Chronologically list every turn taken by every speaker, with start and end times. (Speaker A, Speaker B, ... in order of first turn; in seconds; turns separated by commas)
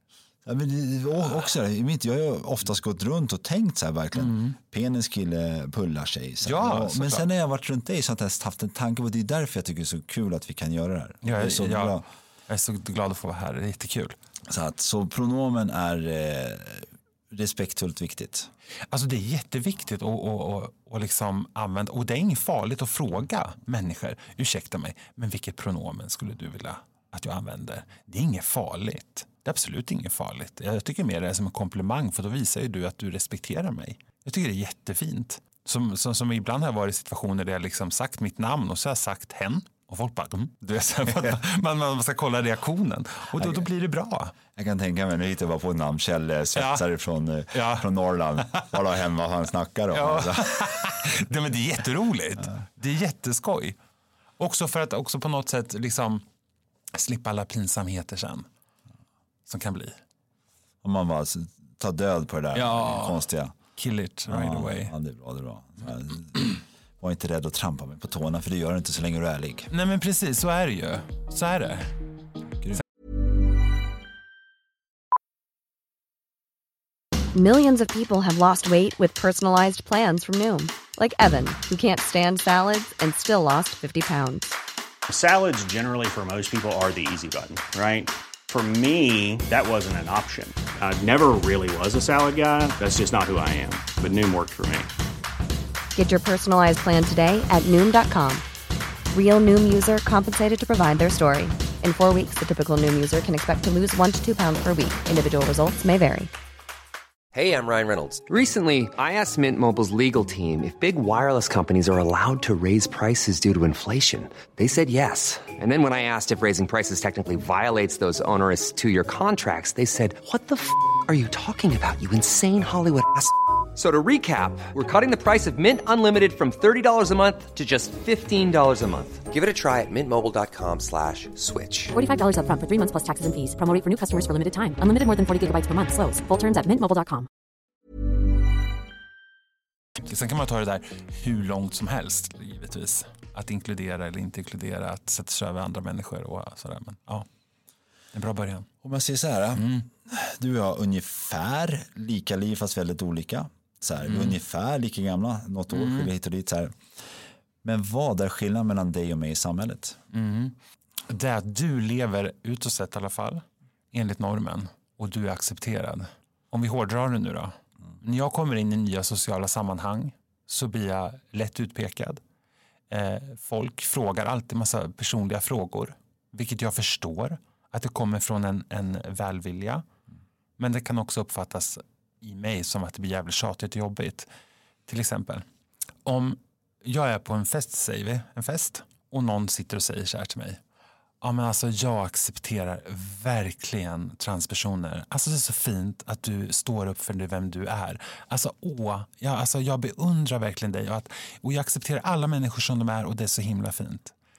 Speaker A: 0.4-12.1, Speaker B: 4.1-4.6, Speaker B: 6.4-7.2, Speaker B: 11.2-12.0, Speaker B: 12.5-14.2, Speaker A: 14.5-18.5, Speaker B: 18.9-44.3, Speaker A: 41.1-41.4, Speaker A: 43.4-43.7, Speaker A: 44.5-51.1, Speaker B: 46.5-46.9, Speaker B: 47.5-47.9, Speaker B: 49.9-53.8, Speaker B: 54.4-56.2, Speaker B: 56.9-58.5, Speaker B: 59.5-60.0, Speaker A: 60.8-63.5, Speaker B: 62.5-64.9, Speaker A: 64.3-69.7, Speaker B: 69.7-71.9, Speaker C: 77.3-84.5, Speaker D: 85.1-94.9, Speaker C: 96.0-98.4, Speaker C: 99.1-106.3, Speaker E: 107.3-131.9, Speaker F: 131.9-137.3, Speaker B: 140.0-147.3, Speaker B: 148.1-148.7, Speaker A: 148.8-160.0, Speaker B: 149.6-149.9, Speaker B: 154.0-154.4, Speaker B: 155.7-156.1, Speaker B: 160.1-172.2, Speaker B: 172.9-179.8, Speaker B: 180.6-184.3, Speaker B: 184.9-185.4, Speaker B: 186.0-190.6, Speaker B: 191.2-204.1